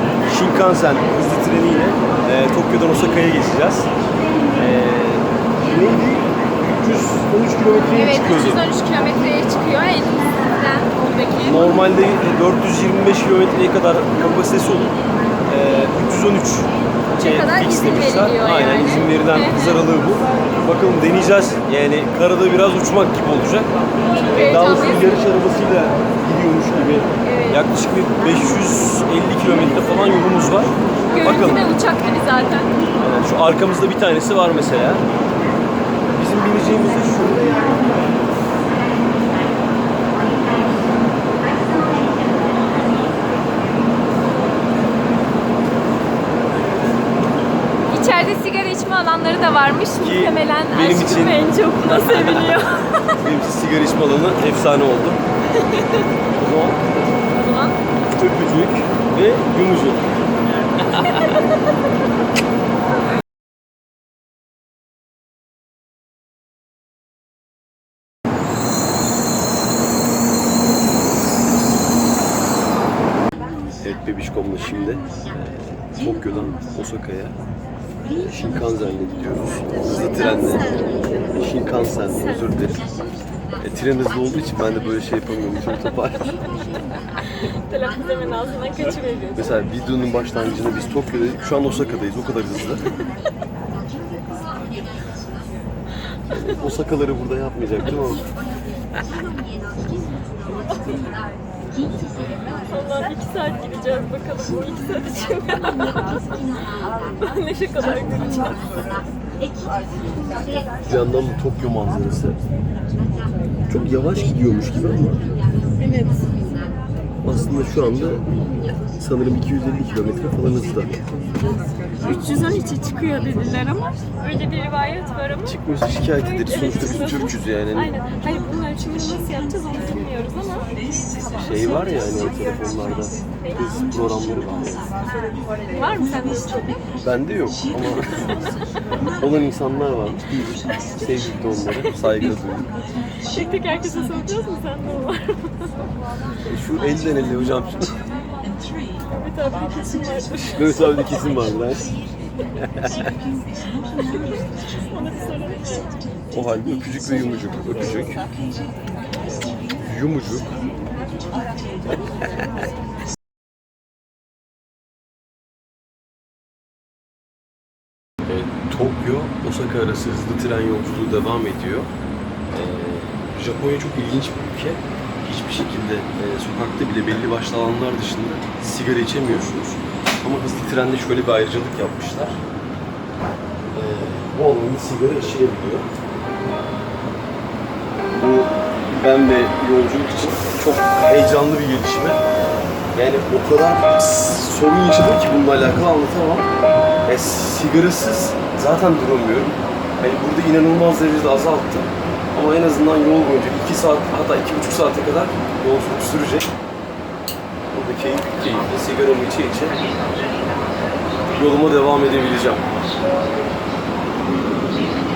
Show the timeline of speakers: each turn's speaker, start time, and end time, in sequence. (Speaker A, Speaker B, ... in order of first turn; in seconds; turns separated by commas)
Speaker A: 0.3-3.9, Speaker A: 4.5-8.6, Speaker B: 7.8-11.8, Speaker A: 11.4-14.9, Speaker A: 15.5-23.7, Speaker B: 17.2-19.8, Speaker B: 24.1-25.3, Speaker A: 24.3-30.7, Speaker B: 27.2-27.6, Speaker B: 31.1-32.7, Speaker A: 31.2-31.7, Speaker A: 33.0-35.0, Speaker A: 36.1-37.9, Speaker B: 47.9-53.0, Speaker A: 50.0-52.5, Speaker A: 53.2-55.2, Speaker A: 56.4-56.8, Speaker B: 57.3-57.8, Speaker A: 58.1-60.2, Speaker A: 60.8-61.3, Speaker A: 73.8-77.3, Speaker A: 78.1-80.7, Speaker B: 80.2-81.2, Speaker A: 81.3-82.8, Speaker B: 82.1-82.8, Speaker A: 83.6-86.3, Speaker B: 87.4-89.4, Speaker A: 89.3-92.8, Speaker A: 96.3-98.2, Speaker B: 102.7-106.7, Speaker B: 107.2-108.7, Speaker A: 110.8-112.4, Speaker A: 113.7-115.2, Speaker B: 115.8-116.3, Speaker A: 117.2-118.2, Speaker A: 119.0-121.0, Speaker B: 122.0-125.6, Speaker A: 125.4-127.9, Speaker B: 126.2-130.7, Speaker A: 131.3-134.9, Speaker B: 135.7-136.8, Speaker A: 137.0-138.3, Speaker A: 139.2-140.2, Speaker A: 141.0-142.7, Speaker B: 143.3-145.6, Speaker A: 146.4-147.9, Speaker B: 149.1-151.1, Speaker A: 150.6-151.9, Speaker A: 152.6-152.9, Speaker B: 154.0-155.9, Speaker A: 156.3-158.2, Speaker A: 159.8-160.5, Speaker A: 161.9-162.4, Speaker A: 168.2-171.9, Speaker A: 172.5-182.4, Speaker A: 183.7-185.9, Speaker A: 188.2-192.2, Speaker A: 192.9-196.5, Speaker A: 197.1-206.5, Speaker A: 207.7-209.8, Speaker A: 211.3-212.7